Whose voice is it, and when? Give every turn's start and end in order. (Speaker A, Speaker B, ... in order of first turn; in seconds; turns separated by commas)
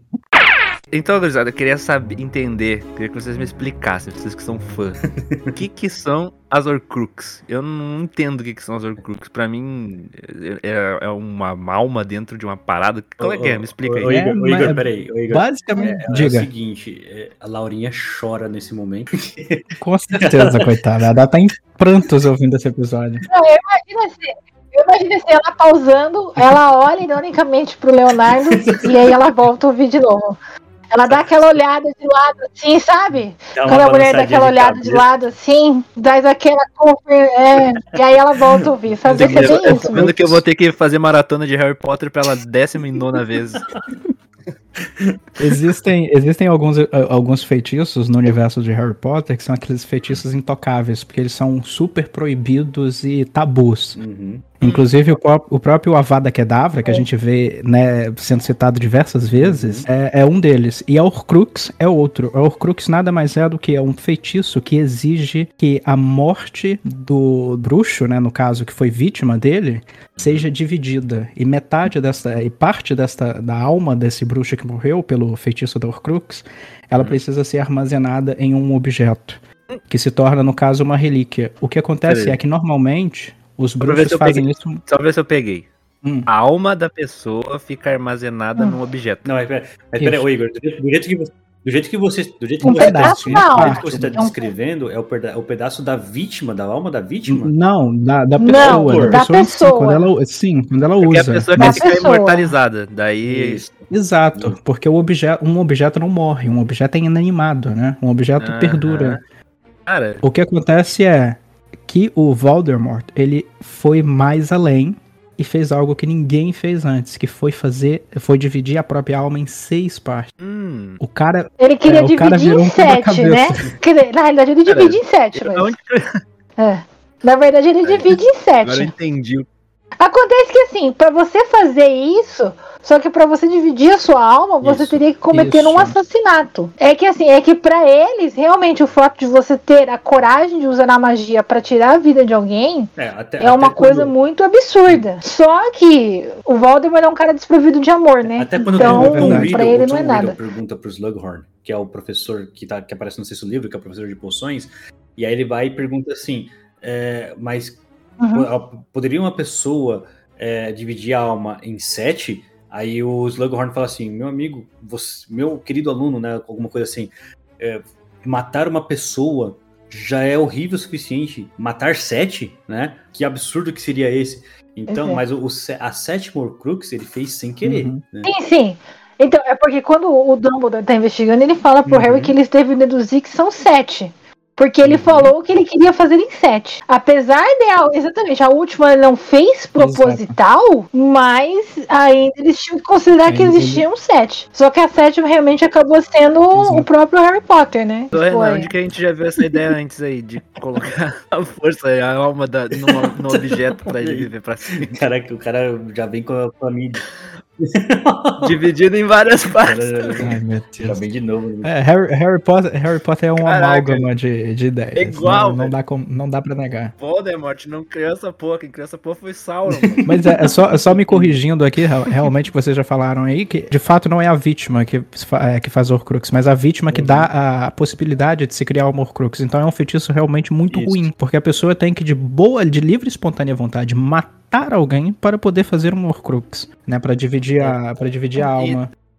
Speaker A: 0.9-5.0, Speaker B: 5.2-5.6, Speaker A: 5.5-14.2, Speaker B: 13.2-20.6, Speaker C: 14.0-16.5, Speaker C: 19.8-23.2, Speaker D: 23.3-30.4, Speaker B: 28.5-29.1, Speaker D: 30.9-40.0, Speaker B: 33.5-35.1, Speaker B: 39.0-40.4, Speaker C: 39.1-40.4, Speaker A: 39.2-43.6, Speaker B: 44.8-45.2, Speaker C: 45.4-54.0, Speaker B: 53.9-54.5, Speaker C: 54.6-79.4, Speaker B: 59.4-59.9, Speaker A: 70.2-70.5, Speaker C: 79.9-84.8, Speaker B: 82.1-82.3, Speaker A: 83.8-85.7, Speaker A: 86.3-89.3, Speaker B: 89.2-97.5, Speaker C: 90.0-90.2, Speaker D: 92.6-94.4, Speaker C: 92.6-94.2, Speaker C: 97.3-101.8, Speaker D: 98.4-100.1, Speaker B: 98.5-99.2, Speaker A: 101.0-103.6, Speaker D: 101.6-102.5, Speaker B: 103.2-104.5, Speaker C: 103.9-109.2, Speaker A: 108.4-109.2, Speaker A: 109.8-110.2, Speaker C: 110.2-120.3, Speaker A: 120.4-121.0, Speaker C: 121.0-123.7, Speaker D: 121.6-125.7, Speaker A: 124.7-126.2, Speaker D: 126.6-128.9, Speaker A: 128.6-129.5, Speaker D: 130.0-150.4, Speaker B: 134.6-135.0, Speaker C: 135.3-135.9, Speaker B: 143.0-144.1, Speaker B: 148.2-157.8, Speaker C: 148.7-149.5, Speaker D: 158.2-158.5, Speaker B: 158.3-178.3, Speaker D: 174.9-175.2, Speaker C: 177.6-178.0, Speaker D: 178.2-198.7, Speaker B: 181.8-182.3, Speaker B: 184.8-185.3, Speaker C: 189.8-190.3, Speaker C: 193.3-193.8, Speaker C: 196.5-196.9, Speaker A: 198.1-204.9, Speaker B: 202.7-207.0, Speaker B: 207.6-208.5, Speaker A: 208.4-210.2, Speaker B: 209.6-211.7, Speaker C: 210.2-211.0, Speaker C: 211.6-216.9, Speaker A: 213.4-214.1, Speaker A: 214.9-215.7, Speaker A: 217.0-220.0, Speaker B: 219.7-220.2, Speaker C: 220.0-238.9, Speaker B: 220.9-221.4, Speaker B: 226.9-227.3, Speaker B: 230.7-231.1, Speaker A: 238.4-238.8